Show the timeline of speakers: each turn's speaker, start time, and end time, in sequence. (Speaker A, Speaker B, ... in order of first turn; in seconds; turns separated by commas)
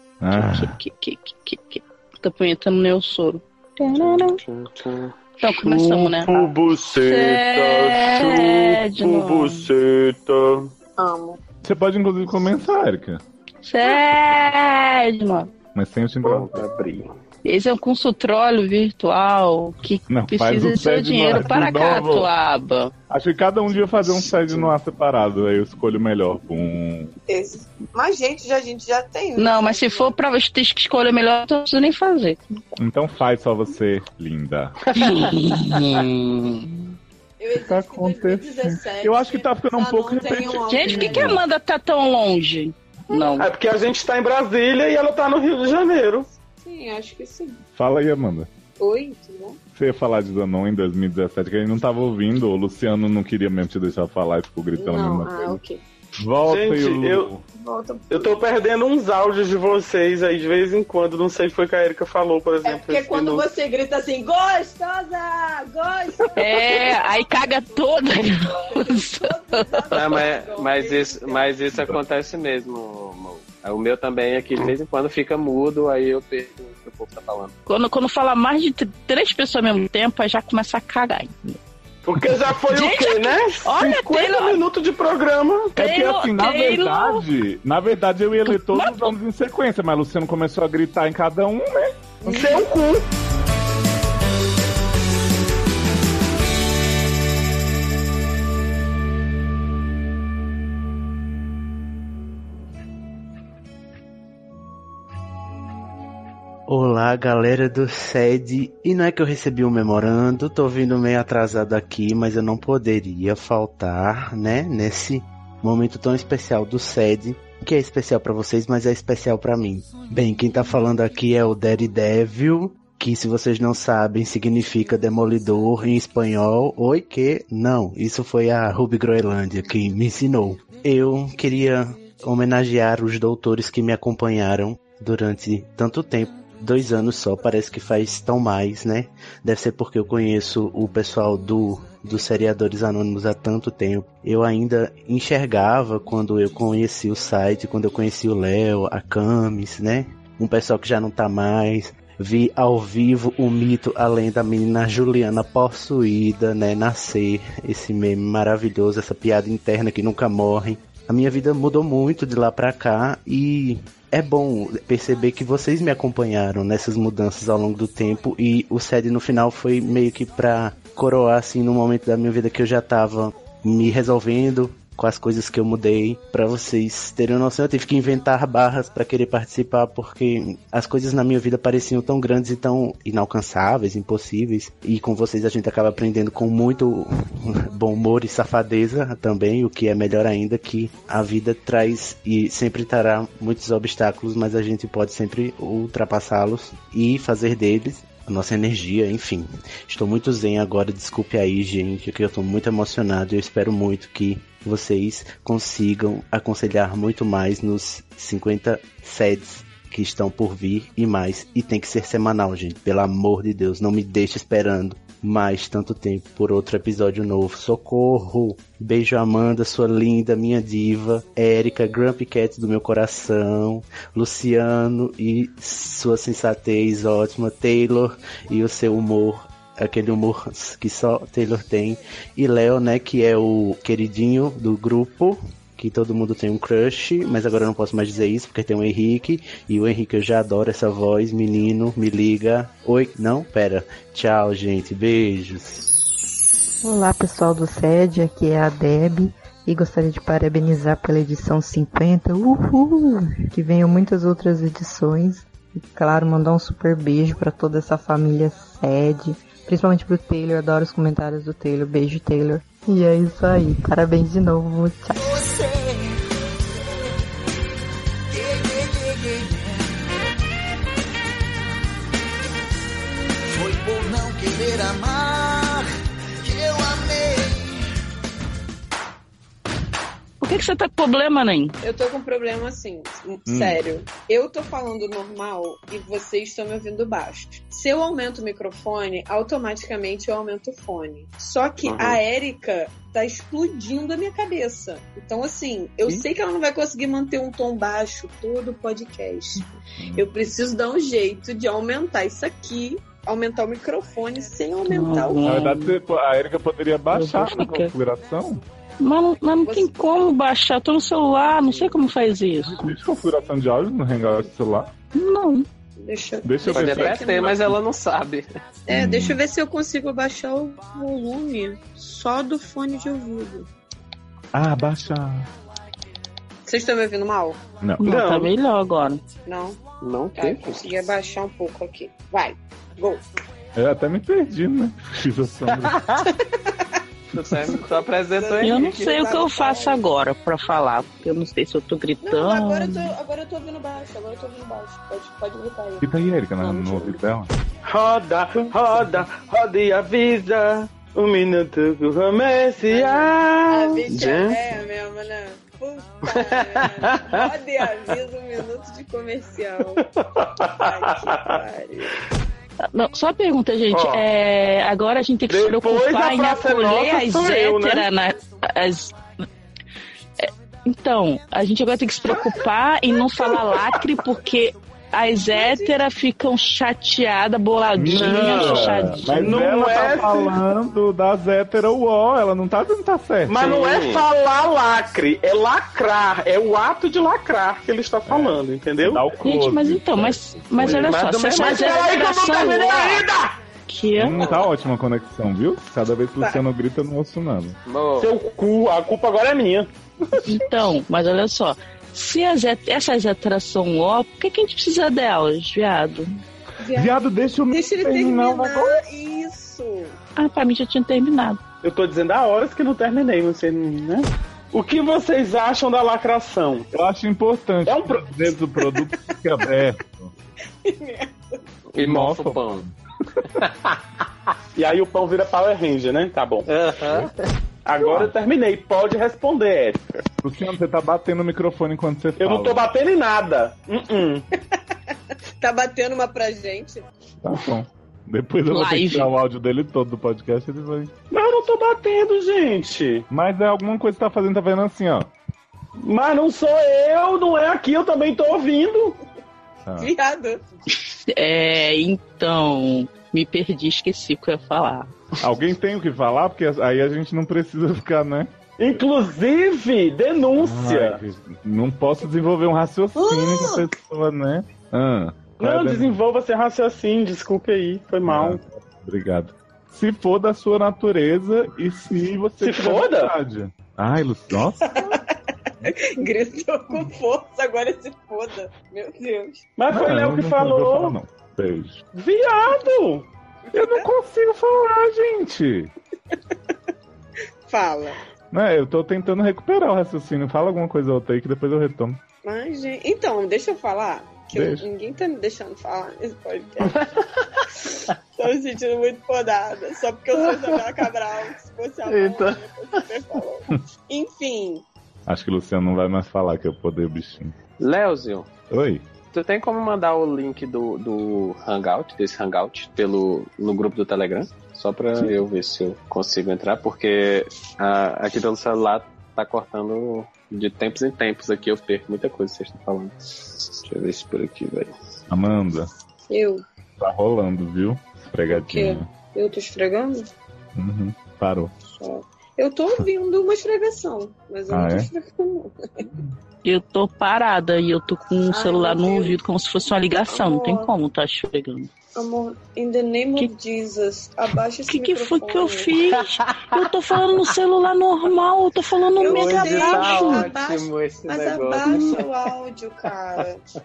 Speaker A: 0.2-0.8, Speaker B: 0.3-4.4, Speaker C: 4.0-5.1, Speaker B: 5.4-9.7, Speaker D: 5.4-10.7, Speaker E: 11.0-11.4, Speaker A: 11.6-13.2, Speaker B: 13.6-15.5, Speaker A: 15.7-16.6, Speaker C: 16.2-17.1, Speaker B: 17.4-22.9, Speaker A: 20.1-22.3, Speaker A: 23.1-27.1, Speaker C: 24.2-24.7, Speaker E: 27.3-30.2, Speaker B: 29.4-32.6, Speaker A: 32.8-34.8, Speaker B: 34.9-36.7, Speaker E: 37.4-41.4, Speaker A: 37.6-41.4, Speaker B: 40.7-43.5, Speaker D: 43.4-46.3, Speaker E: 46.6-47.6, Speaker A: 47.8-48.5, Speaker E: 48.8-49.6, Speaker A: 49.8-55.6, Speaker E: 54.7-55.8, Speaker A: 56.2-57.4, Speaker D: 56.4-57.3, Speaker E: 57.5-58.4, Speaker D: 58.1-63.5, Speaker E: 62.6-71.5, Speaker B: 66.3-69.8, Speaker C: 69.9-77.5, Speaker B: 77.7-81.5, Speaker D: 82.0-85.7, Speaker B: 82.7-84.6, Speaker A: 85.8-91.9, Speaker B: 85.8-87.2, Speaker B: 88.4-89.1, Speaker E: 92.2-92.7, Speaker D: 92.3-93.0, Speaker F: 106.7-245.8, Speaker G: 246.8-265.2, Speaker H: 265.1-266.2, Speaker H: 268.3-269.8, Speaker H: 273.5-275.9, Speaker H: 276.4-277.8, Speaker B: 280.4-281.7, Speaker E: 281.8-305.6, Speaker A: 283.5-283.8, Speaker C: 291.9-292.2, Speaker A: 300.0-300.3, Speaker B: 304.9-305.9, Speaker A: 305.4-308.6, Speaker B: 307.1-307.9, Speaker B: 309.0-312.9, Speaker E: 309.6-309.9, Speaker A: 312.7-314.9, Speaker B: 315.1-315.6, Speaker E: 316.0-317.7, Speaker A: 316.4-317.3, Speaker C: 316.7-318.4, Speaker E: 318.9-323.7, Speaker A: 318.9-319.4, Speaker A: 324.5-325.5, Speaker E: 326.6-327.6, Speaker A: 327.8-328.1, Speaker B: 328.0-329.2, Speaker D: 328.0-328.5, Speaker E: 329.4-329.8, Speaker C: 330.0-330.8, Speaker E: 330.4-333.2, Speaker A: 333.7-336.1, Speaker C: 335.9-336.2, Speaker C: 337.3-339.1, Speaker E: 337.8-340.1, Speaker B: 338.6-343.1, Speaker E: 342.2-346.0, Speaker A: 346.0-347.5, Speaker E: 346.6-347.2, Speaker D: 347.8-354.0, Speaker E: 352.9-360.0, Speaker C: 354.1-354.6, Speaker C: 356.3-357.5, Speaker D: 360.2-361.5, Speaker E: 360.8-362.1, Speaker B: 362.9-369.1, Speaker D: 363.9-364.2, Speaker D: 365.5-368.1, Speaker B: 370.4-379.6, Speaker E: 375.5-375.9, Speaker A: 378.0-383.6, Speaker D: 378.1-378.8, Speaker D: 379.4-380.6, Speaker D: 383.4-389.2, Speaker C: 383.5-384.2, Speaker A: 388.3-391.1, Speaker B: 389.4-393.2, Speaker C: 390.8-392.2, Speaker D: 391.5-393.6, Speaker B: 393.9-394.5, Speaker A: 394.2-397.8, Speaker E: 394.4-394.7, Speaker E: 396.4-396.6, Speaker C: 397.9-398.3, Speaker D: 398.2-399.9, Speaker B: 400.4-406.3, Speaker E: 406.8-407.2, Speaker A: 406.9-409.0, Speaker E: 407.7-410.1, Speaker B: 410.4-411.6, Speaker D: 411.8-416.9, Speaker A: 416.9-420.3, Speaker D: 417.9-418.5, Speaker E: 420.8-421.6, Speaker C: 421.9-422.8, Speaker A: 422.0-422.9, Speaker C: 423.6-423.9, Speaker D: 424.8-426.6, Speaker C: 426.7-427.4, Speaker A: 427.1-427.3, Speaker D: 427.9-430.1, Speaker A: 428.0-428.3, Speaker A: 430.4-432.9, Speaker D: 432.4-434.5, Speaker E: 435.6-437.1, Speaker A: 437.4-441.1, Speaker B: 438.7-439.3, Speaker D: 441.3-443.3, Speaker A: 443.3-445.3, Speaker D: 446.0-449.2, Speaker A: 449.8-450.1, Speaker E: 450.0-450.6, Speaker B: 451.3-455.1, Speaker A: 455.4-458.5, Speaker D: 458.8-461.2, Speaker A: 460.6-466.2, Speaker E: 463.2-463.8, Speaker D: 465.6-468.6, Speaker A: 468.2-475.0, Speaker D: 472.6-473.3, Speaker E: 474.9-475.2, Speaker E: 475.8-479.6, Speaker D: 479.8-481.2, Speaker A: 479.9-482.0, Speaker D: 482.1-483.2, Speaker E: 483.7-484.1, Speaker A: 483.7-485.9, Speaker E: 487.7-488.2, Speaker A: 488.5-492.2, Speaker E: 492.4-497.1, Speaker A: 494.5-494.9, Speaker C: 496.9-497.2, Speaker E: 497.9-504.8, Speaker C: 500.4-500.8, Speaker C: 502.1-502.6, Speaker A: 505.3-507.5, Speaker C: 507.8-508.5, Speaker A: 508.7-509.0, Speaker C: 509.3-523.1, Speaker C: 523.8-524.9, Speaker A: 525.3-525.9, Speaker E: 526.3-526.6, Speaker A: 527.0-529.1, Speaker E: 528.5-530.3, Speaker A: 530.8-531.7, Speaker E: 531.8-536.1, Speaker A: 534.7-535.1, Speaker B: 536.6-541.9, Speaker E: 538.5-539.4, Speaker E: 540.3-540.9, Speaker E: 542.1-545.9, Speaker B: 544.9-550.5, Speaker E: 549.2-553.6, Speaker C: 549.3-552.3